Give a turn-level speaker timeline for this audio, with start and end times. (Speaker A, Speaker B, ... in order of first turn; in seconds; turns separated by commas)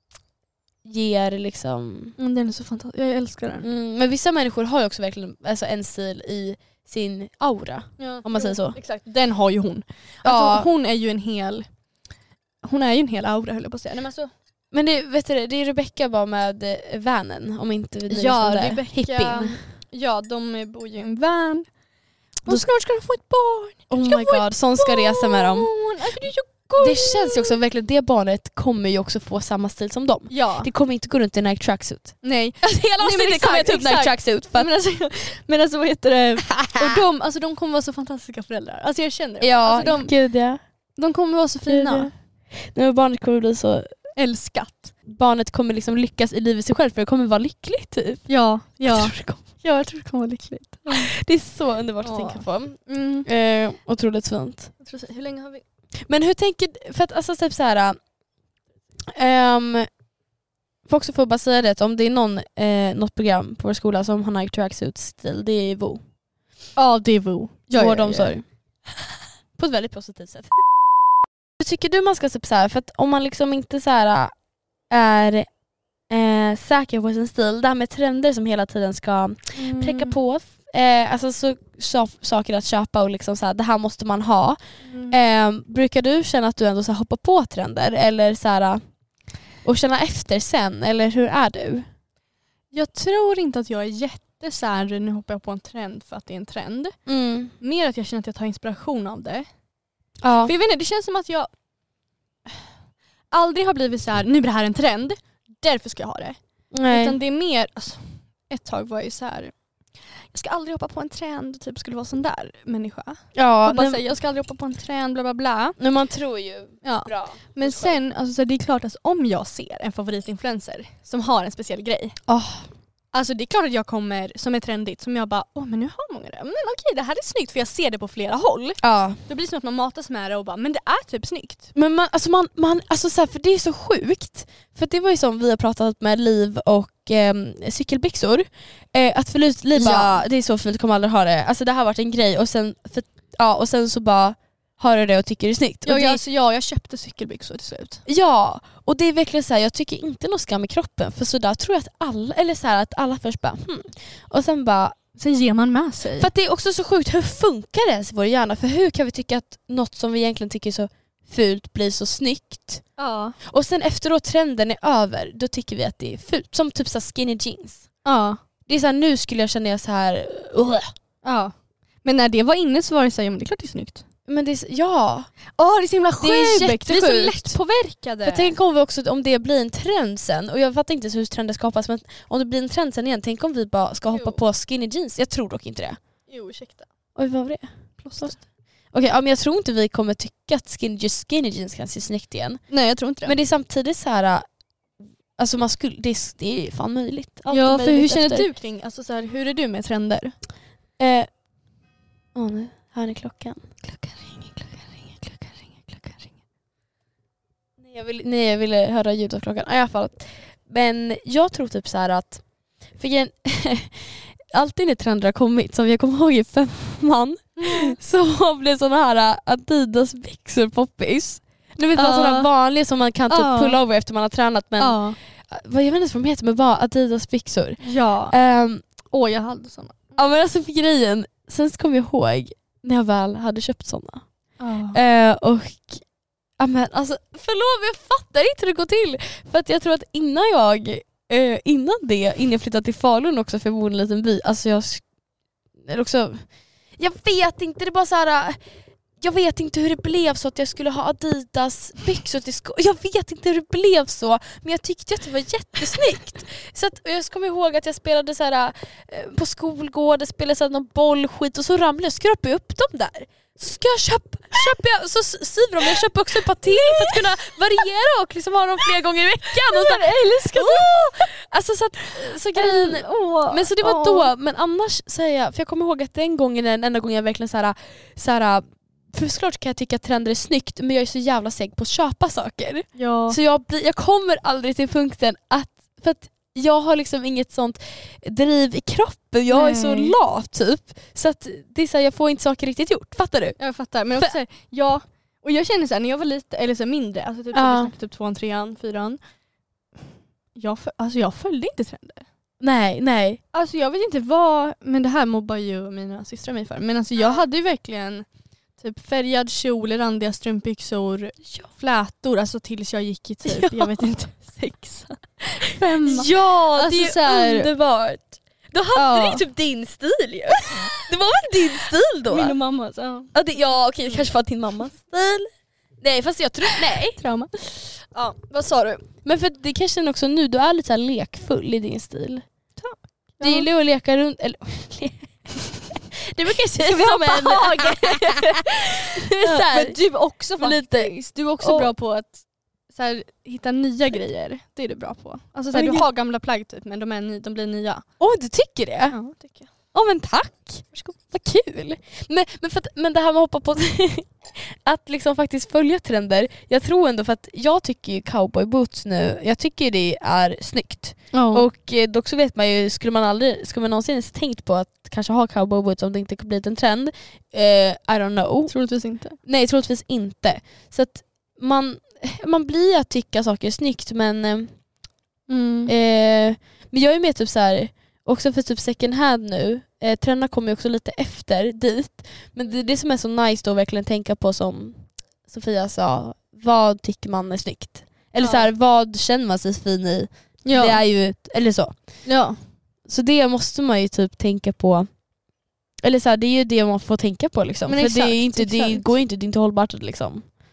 Speaker A: 0.8-2.1, Speaker B: 2.2-3.6, Speaker A: 3.6-8.8, Speaker B: 8.0-11.7, Speaker A: 10.2-10.7, Speaker B: 12.6-14.3, Speaker A: 14.7-19.6, Speaker B: 18.1-21.7, Speaker B: 22.4-27.6, Speaker A: 23.9-25.7, Speaker A: 26.8-34.7, Speaker B: 30.3-30.7, Speaker B: 32.2-40.1, Speaker A: 36.6-36.9, Speaker A: 39.4-40.6, Speaker B: 41.0-42.1, Speaker A: 41.7-42.1, Speaker A: 42.6-43.9, Speaker B: 44.1-44.9, Speaker A: 45.1-48.2, Speaker B: 48.3-51.1, Speaker A: 48.8-49.5, Speaker A: 50.9-54.7, Speaker B: 52.0-53.3, Speaker B: 54.8-55.6, Speaker A: 56.1-58.0, Speaker A: 59.1-59.9, Speaker A: 60.9-66.0, Speaker B: 66.8-68.3, Speaker A: 67.7-68.4, Speaker A: 69.6-70.5, Speaker A: 71.6-74.3, Speaker A: 74.9-75.5, Speaker A: 76.1-88.8, Speaker B: 79.6-80.2, Speaker B: 84.8-85.1, Speaker A: 89.6-91.9, Speaker B: 92.7-97.0, Speaker A: 97.0-97.5, Speaker B: 97.6-99.5, Speaker A: 100.2-100.5, Speaker B: 100.4-101.5, Speaker B: 103.3-106.4, Speaker A: 106.7-107.2, Speaker B: 106.9-109.5, Speaker B: 110.3-115.8, Speaker A: 113.3-114.0, Speaker A: 115.8-118.0, Speaker B: 116.8-122.2, Speaker A: 122.3-122.7, Speaker B: 123.1-131.7, Speaker A: 128.8-129.2, Speaker A: 131.7-146.2, Speaker B: 139.7-140.2, Speaker B: 145.8-148.0, Speaker A: 148.1-154.9, Speaker B: 155.2-156.3, Speaker A: 156.2-162.8, Speaker B: 163.0-163.3, Speaker A: 163.5-167.9, Speaker B: 168.0-168.4, Speaker A: 168.7-170.9, Speaker B: 171.2-171.5, Speaker B: 172.0-174.0, Speaker A: 174.3-175.3, Speaker B: 175.6-178.5, Speaker A: 176.2-177.6, Speaker A: 178.2-186.0, Speaker B: 184.1-184.4, Speaker B: 186.3-186.9, Speaker A: 187.1-188.4, Speaker B: 188.0-188.4, Speaker A: 188.9-192.6, Speaker B: 192.7-193.3, Speaker A: 193.2-194.4, Speaker A: 195.4-198.5, Speaker B: 197.5-200.3, Speaker A: 201.0-201.3, Speaker A: 202.3-203.6, Speaker B: 203.8-206.3, Speaker A: 207.8-212.4, Speaker A: 213.0-228.8, Speaker B: 217.6-218.0, Speaker B: 221.9-222.5, Speaker B: 223.3-223.8, Speaker B: 224.8-225.2, Speaker B: 227.8-228.3, Speaker B: 229.1-230.1, Speaker A: 230.2-234.2, Speaker B: 234.6-235.0, Speaker A: 234.9-236.0, Speaker A: 236.6-245.0, Speaker A: 245.8-246.4, Speaker A: 247.0-248.6, Speaker A: 249.2-293.6, Speaker B: 266.6-267.2, Speaker B: 269.5-271.1, Speaker B: 272.5-274.3, Speaker B: 282.9-283.4, Speaker B: 289.5-290.1, Speaker B: 293.6-299.2, Speaker A: 297.5-297.9, Speaker B: 300.5-302.2, Speaker A: 302.6-303.4, Speaker B: 303.5-308.2, Speaker B: 308.8-317.7, Speaker A: 313.4-314.0, Speaker A: 315.7-322.5, Speaker B: 318.9-319.4, Speaker B: 322.3-323.3, Speaker A: 323.3-327.2, Speaker B: 326.7-327.5, Speaker B: 328.0-329.1, Speaker A: 329.2-332.4, Speaker B: 332.8-333.7, Speaker A: 333.4-335.4, Speaker A: 336.1-340.0, Speaker B: 336.8-348.0, Speaker A: 340.6-341.9, Speaker A: 345.7-346.1, Speaker A: 348.2-349.2, Speaker B: 349.1-349.7, Speaker A: 349.9-368.7, Speaker B: 361.3-361.6, Speaker B: 368.7-369.4, Speaker A: 369.4-374.7, Speaker B: 375.5-375.9, Speaker A: 375.9-391.9, Speaker B: 388.4-388.7, Speaker B: 390.6-391.0, Speaker B: 392.2-392.6, Speaker A: 393.1-395.1, Speaker A: 396.0-400.5, Speaker B: 397.9-399.1